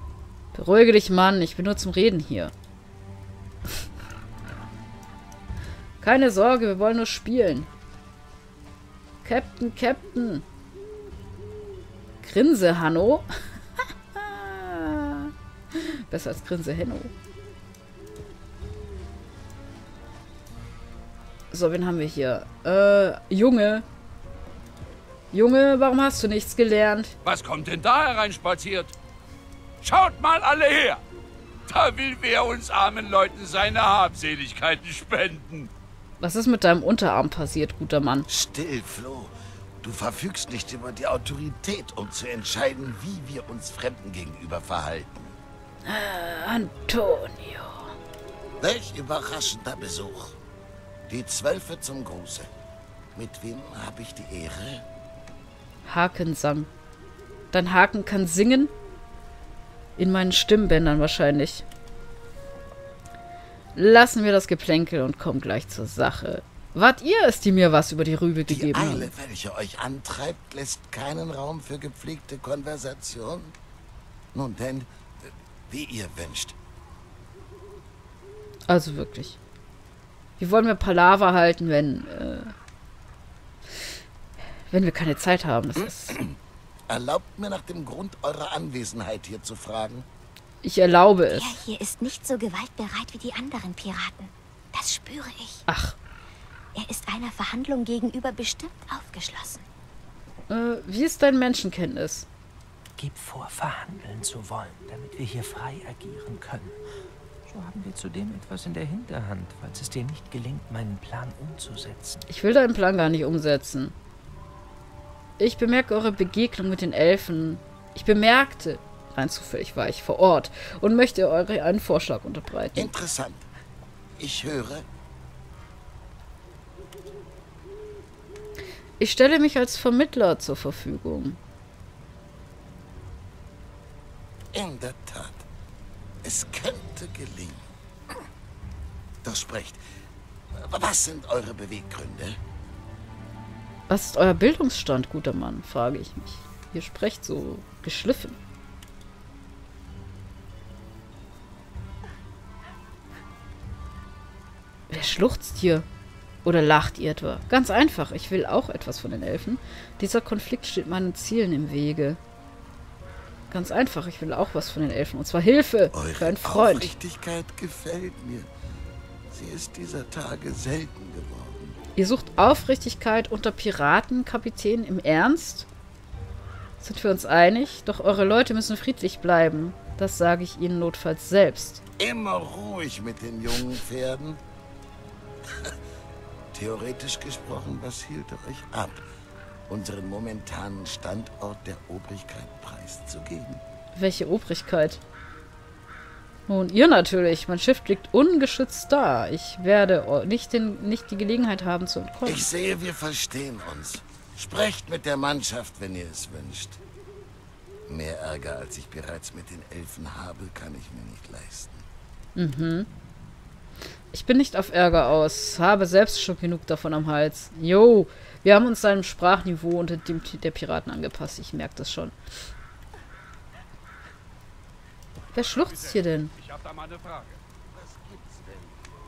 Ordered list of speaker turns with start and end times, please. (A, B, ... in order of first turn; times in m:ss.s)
0:00.5-0:02.5 A
0:06.0-0:07.7 A
0:09.2-0:10.4 A
0:12.2-0:13.3 A
0:14.1-0:17.1 A
0:21.5-0:23.8 A
0:25.3-0:27.1 A
0:27.2-0:28.9 B
0:29.8-0:31.0 B
0:31.7-0:35.7 B
0:36.2-0:38.3 A
0:38.3-0:45.3 C
0:45.8-0:48.0 A
0:48.6-0:50.4 C
0:51.1-0:52.5 C
0:53.1-0:54.8 C
0:55.8-0:56.7 A
0:57.5-0:58.7 A
1:00.0-1:01.6 A
1:03.7-1:09.1 A
1:08.5-1:13.5 C
1:14.3-1:16.5 C
1:18.7-1:19.4 A
1:20.4-1:22.5 A
1:24.7-1:26.2 A
1:26.9-1:30.1 C
1:30.6-1:31.5 A
1:31.3-1:35.6 D
1:35.7-1:36.0 A
1:36.7-1:39.6 D
1:40.5-1:42.3 A
1:43.0-1:46.8 E
1:47.5-1:52.2 E
1:52.3-1:53.9 A
1:55.4-2:02.9 A
2:02.7-2:03.5 C
2:04.2-2:04.8 C
2:09.0-2:11.4 A
2:14.5-2:15.4 C
2:16.2-2:17.6 C
2:19.2-2:19.8 C
2:20.6-2:22.4 C
2:23.9-2:28.4 A
2:34.9-2:35.8 A
2:36.4-2:42.2 A
2:43.5-2:46.9 A
2:45.9-2:48.5 C
2:49.3-2:51.8 C
2:52.0-2:55.7 A
2:56.8-3:01.8 A
3:02.0-3:04.4 C
3:06.5-3:09.0 C
3:09.7-3:13.6 C
3:13.9-3:15.0 A
3:16.5-3:22.5 A
3:22.2-3:26.8 C
3:27.9-3:31.8 C
3:32.4-3:32.9 A
3:34.1-3:42.1 A
3:45.3-3:46.3 A
3:45.5-3:47.4 B
3:47.7-3:48.8 C